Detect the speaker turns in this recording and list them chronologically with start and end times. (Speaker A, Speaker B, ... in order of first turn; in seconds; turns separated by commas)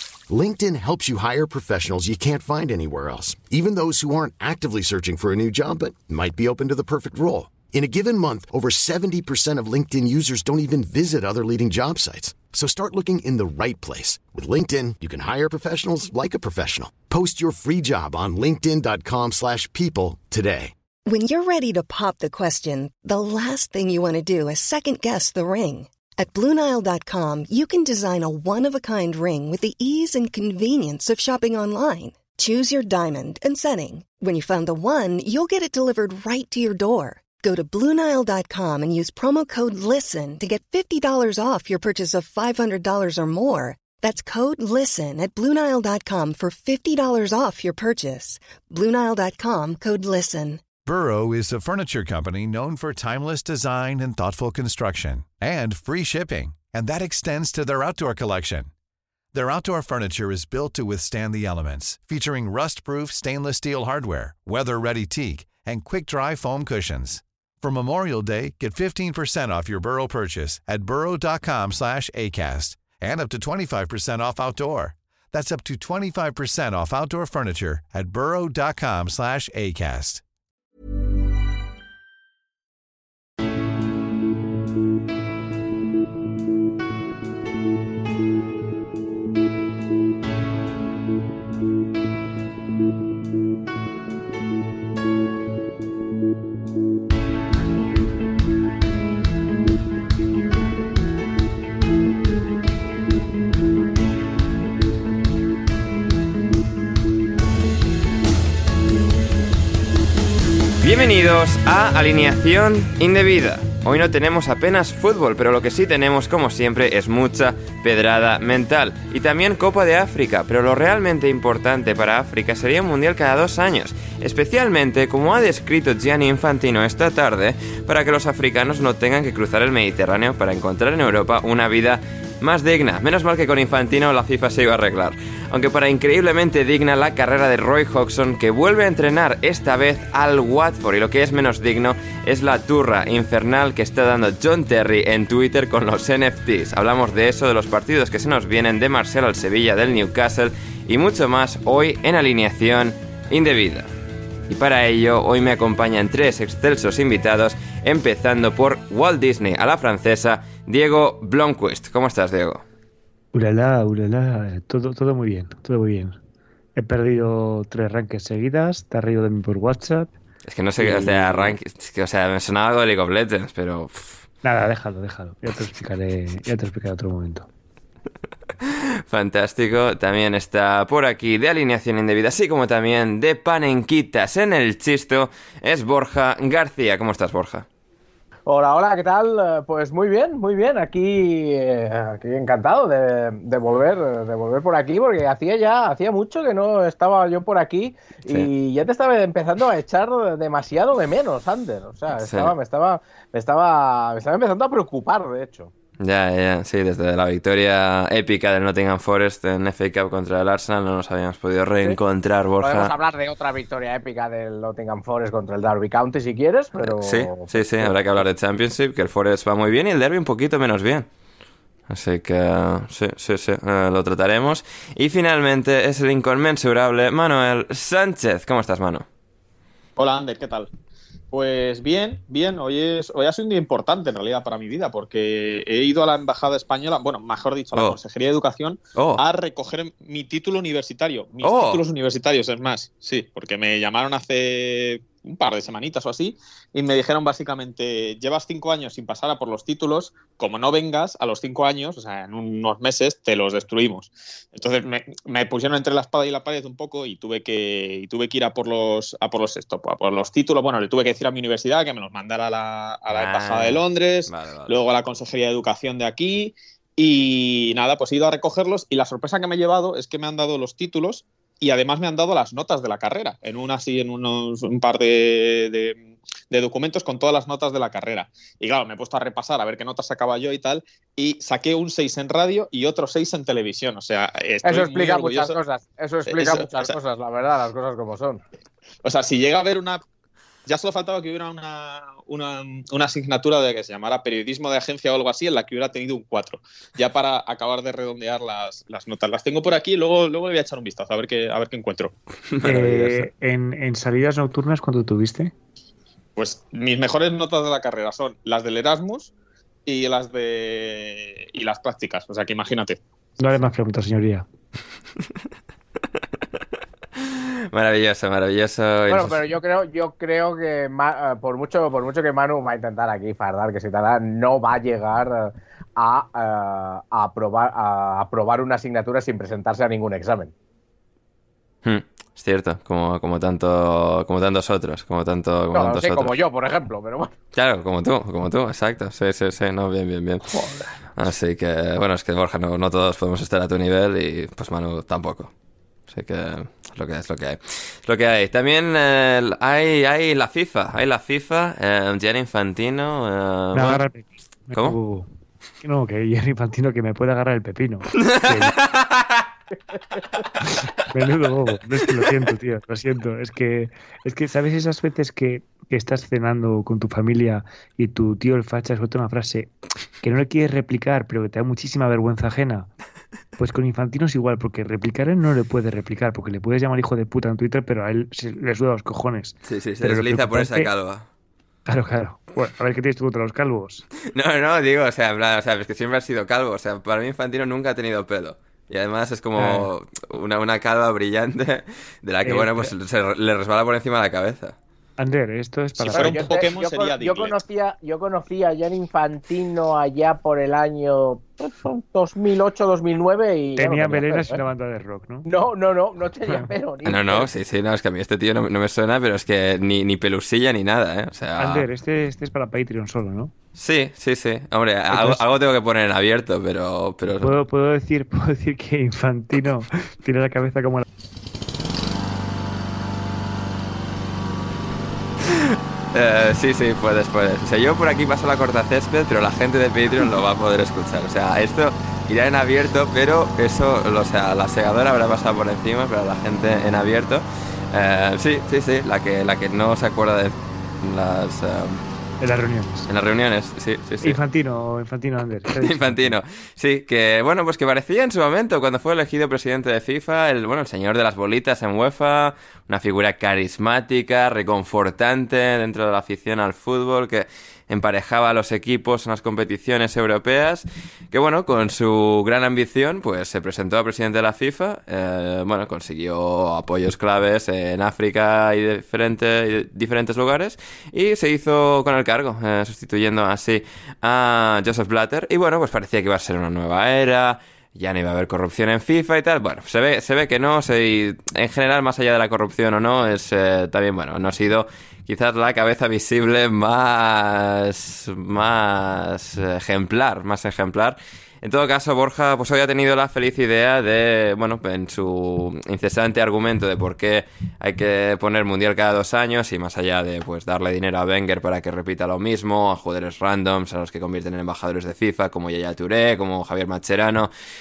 Speaker A: 0.3-20.7, Speaker B: 21.1-50.6, Speaker C: 50.9-58.7, Speaker C: 59.3-80.2, Speaker D: 110.8-153.9, Speaker D: 154.5-162.6, Speaker E: 163.3-166.2, Speaker E: 166.8-170.2, Speaker D: 170.5-174.2, Speaker E: 170.8-171.6, Speaker E: 174.4-177.5, Speaker D: 178.7-187.7, Speaker F: 188.5-205.7, Speaker D: 202.2-202.5, Speaker D: 206.0-212.9, Speaker F: 212.6-218.0, Speaker D: 216.8-221.1, Speaker D: 221.9-229.1, Speaker G: 230.0-230.7, Speaker G: 231.3-285.6, Speaker D: 239.0-239.2, Speaker D: 241.4-241.8, Speaker D: 263.1-264.9, Speaker F: 284.6-288.4, Speaker G: 286.3-286.9, Speaker G: 289.0-290.0, Speaker G: 290.7-302.1, Speaker D: 302.5-303.3, Speaker E: 302.6-305.5, Speaker G: 306.4-309.3, Speaker G: 309.9-313.0, Speaker E: 313.4-314.4, Speaker D: 317.2-319.4, Speaker F: 319.1-330.5, Speaker D: 331.8-336.4, Speaker F: 335.7-337.3, Speaker D: 337.5-340.6, Speaker E: 340.6-340.9, Speaker D: 341.1-345.5, Speaker D: 346.1-354.0, Speaker E: 353.7-355.3, Speaker E: 355.8-358.8, Speaker D: 358.2-359.4, Speaker E: 360.6-369.7, Speaker E: 370.2-372.9, Speaker E: 373.6-380.9, Speaker D: 379.7-381.3, Speaker E: 381.9-384.1, Speaker D: 384.3-394.8, Speaker E: 389.6-389.9, Speaker E: 392.4-392.9, Speaker E: 395.2-396.5, Speaker G: 396.0-397.6, Speaker F: 396.1-404.6, Speaker E: 403.8-405.5, Speaker F: 405.5-407.5, Speaker D: 407.1-411.9, Speaker E: 411.6-413.5, Speaker D: 413.8-417.6, Speaker E: 415.1-415.4, Speaker E: 417.4-421.1, Speaker D: 425.4-442.0, Speaker E: 442.4-443.1, Speaker D: 443.1-444.4, Speaker E: 444.2-446.4, Speaker D: 445.7-507.5